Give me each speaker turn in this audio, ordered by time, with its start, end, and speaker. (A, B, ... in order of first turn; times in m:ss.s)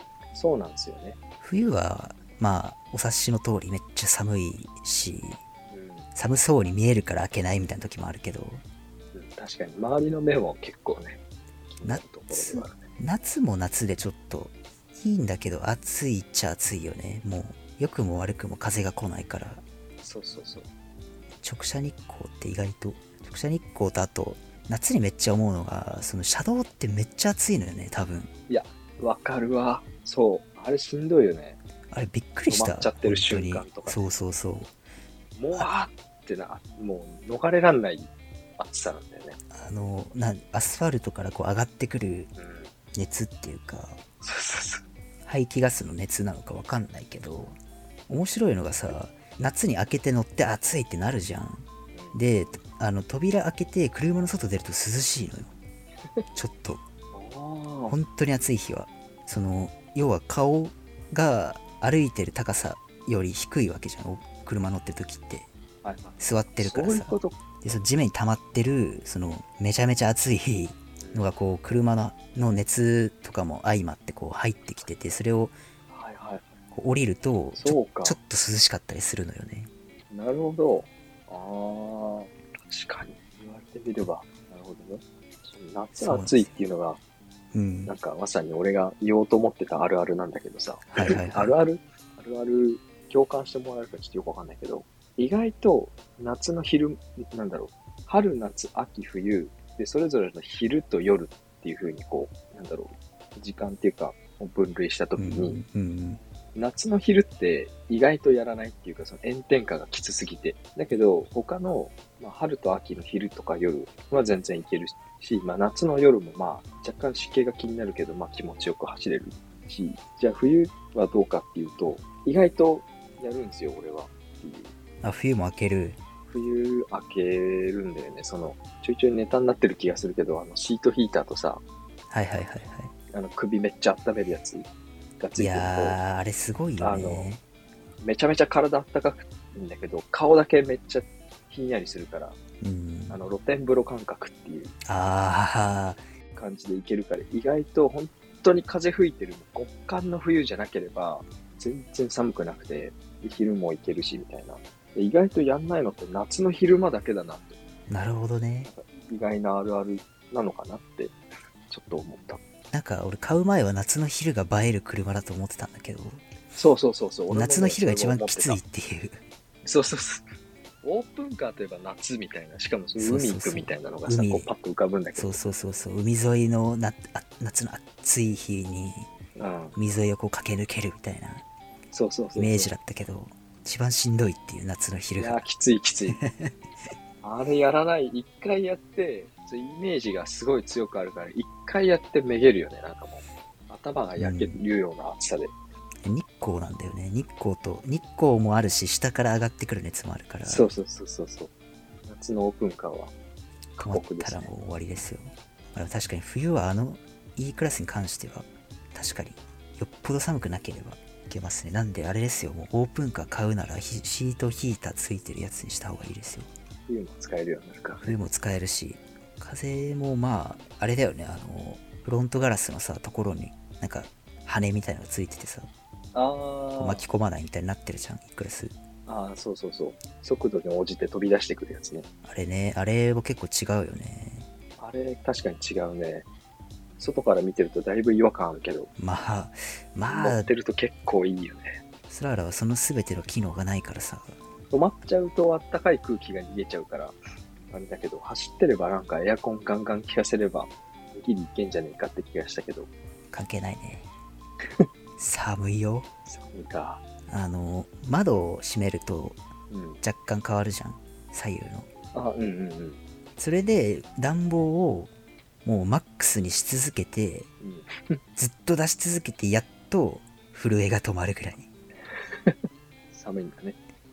0:00.3-0:01.2 A
0:01.4-0:05.4 B
0:05.7-0:06.1 A
0:06.1-0:08.6 B
0:09.1-0:12.8 A
0:11.8-0:19.6 B
0:20.0-0:20.7 A
0:21.4-0:28.3 B
0:28.5-0:31.6 A
0:31.9-0:34.7 B
0:32.5-0:34.0 A
0:35.3-0:39.4 A
0:39.5-0:42.3 B
0:42.4-0:42.7 A
0:42.9-0:44.0 B
0:44.2-0:44.8 A
0:45.2-0:47.6 B
0:48.1-0:55.5 B
0:56.3-0:56.8 B
0:57.1-0:58.0 A
0:57.9-1:05.5 B
1:05.8-1:07.4 A
1:06.2-1:15.6 B
1:11.0-1:11.3 A
1:15.9-1:16.6 A
1:16.7-1:19.7 B
1:17.5-1:18.2 A
1:20.1-1:27.0 A
1:26.0-1:26.5 B
1:27.5-1:27.9 B
1:27.8-1:45.6 A
1:30.9-1:31.5 B
1:45.2-1:46.2 B
1:46.5-2:04.7 A
2:05.0-2:06.0 B
2:06.3-2:11.6 A
2:12.1-2:12.9 B
2:13.1-2:14.7 A
2:15.2-2:16.0 A
2:15.4-2:17.4 B
2:16.8-2:17.3 A
2:18.0-2:22.4 A
2:22.6-2:23.2 B
2:23.1-2:24.7 A
2:24.8-2:26.0 B
2:26.3-2:37.6 A
2:37.9-2:38.7 B
2:38.6-2:41.1 A
2:41.7-2:42.4 A
2:42.7-2:46.3 B
2:46.5-2:48.6 A
2:47.3-2:49.2 B
2:49.6-2:50.3 A
2:50.8-2:55.4 A
2:53.0-2:54.5 B
2:55.1-2:59.1 B
2:59.4-2:59.8 A
2:59.7-3:01.4 B
3:01.9-3:02.7 A
3:02.3-3:05.4 B
3:05.2-3:06.2 A
3:06.1-3:06.9 B
3:07.2-3:15.5 A
3:14.2-3:14.6 B
3:16.0-3:20.7 B
3:20.4-3:21.5 A
3:22.1-3:23.1 A
3:23.8-3:24.5 A
3:23.8-3:36.5 B
3:36.9-3:38.2 A
3:38.0-3:45.7 B
3:46.1-3:47.0 A
3:46.8-3:48.7 B
3:49.1-3:52.1 A
3:52.2-3:54.5 B
3:54.8-3:56.3 A
3:57.0-3:58.9 A
3:59.0-4:00.5 B
4:00.0-4:01.8 A
4:02.1-4:04.4 B
4:04.7-4:07.2 A
4:07.7-4:12.9 A
4:13.3-4:14.1 B
4:15.2-4:16.1 B
4:16.3-4:17.0 A
4:17.3-4:19.4 B
4:19.7-4:20.0 A
4:20.0-4:21.9 B
4:22.1-4:23.0 A
4:23.4-4:25.1 B
4:25.6-4:27.5 B
4:27.6-4:28.2 A
4:28.4-4:31.7 B
4:32.1-4:33.8 A